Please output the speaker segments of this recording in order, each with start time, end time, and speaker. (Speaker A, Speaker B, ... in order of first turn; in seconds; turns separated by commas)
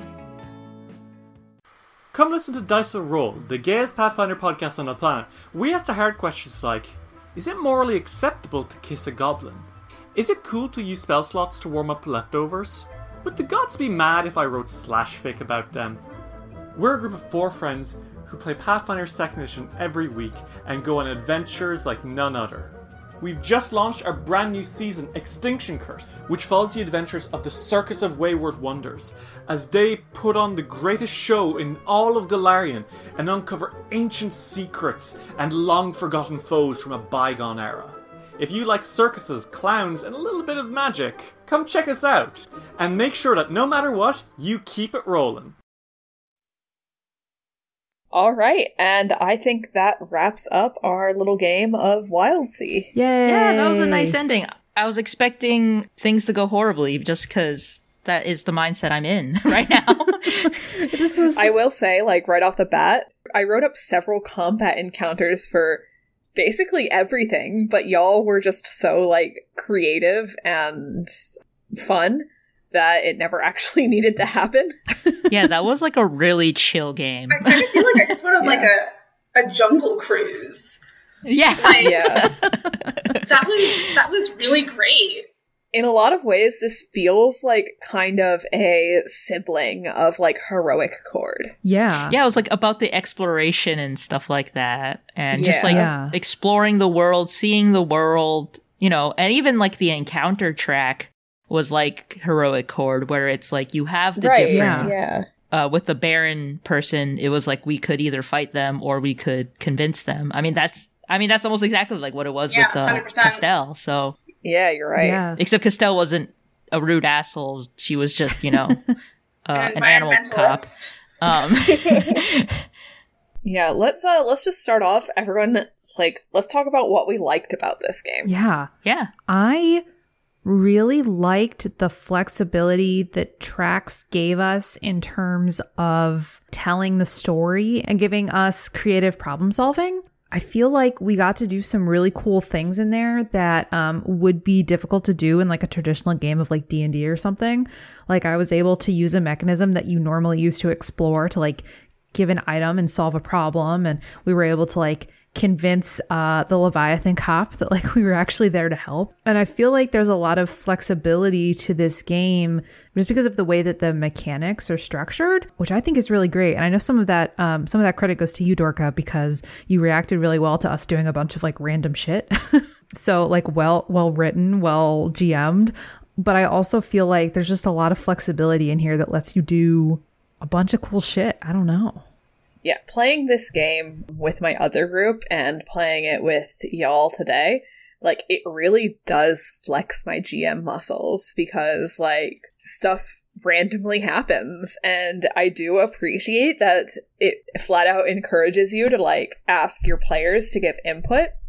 Speaker A: 2.1-16.0, Speaker A: 16.7-45.5, Speaker B: 48.1-52.9, Speaker C: 52.9-54.2, Speaker D: 53.2-60.6, Speaker C: 60.8-61.5, Speaker B: 61.3-74.7, Speaker D: 75.3-77.8, Speaker E: 77.3-80.8, Speaker B: 78.4-78.7, Speaker D: 81.2-83.3, Speaker E: 81.6-82.0, Speaker B: 81.8-82.3, Speaker E: 83.2-85.2, Speaker B: 85.7-91.5, Speaker C: 91.6-92.2, Speaker D: 92.1-104.9, Speaker B: 95.3-95.9, Speaker C: 95.6-96.2, Speaker B: 104.2-105.2, Speaker C: 104.5-104.9, Speaker D: 105.5-114.2, Speaker E: 112.5-113.4, Speaker B: 114.4-115.2, Speaker C: 115.0-115.4, Speaker D: 115.3-118.8, Speaker D: 119.5-122.7, Speaker E: 119.5-121.0, Speaker B: 121.6-122.2, Speaker B: 123.4-128.3, Speaker C: 128.2-128.7, Speaker D: 128.8-129.1, Speaker C: 129.2-129.8, Speaker C: 130.4-182.0, Speaker B: 182.6-201.3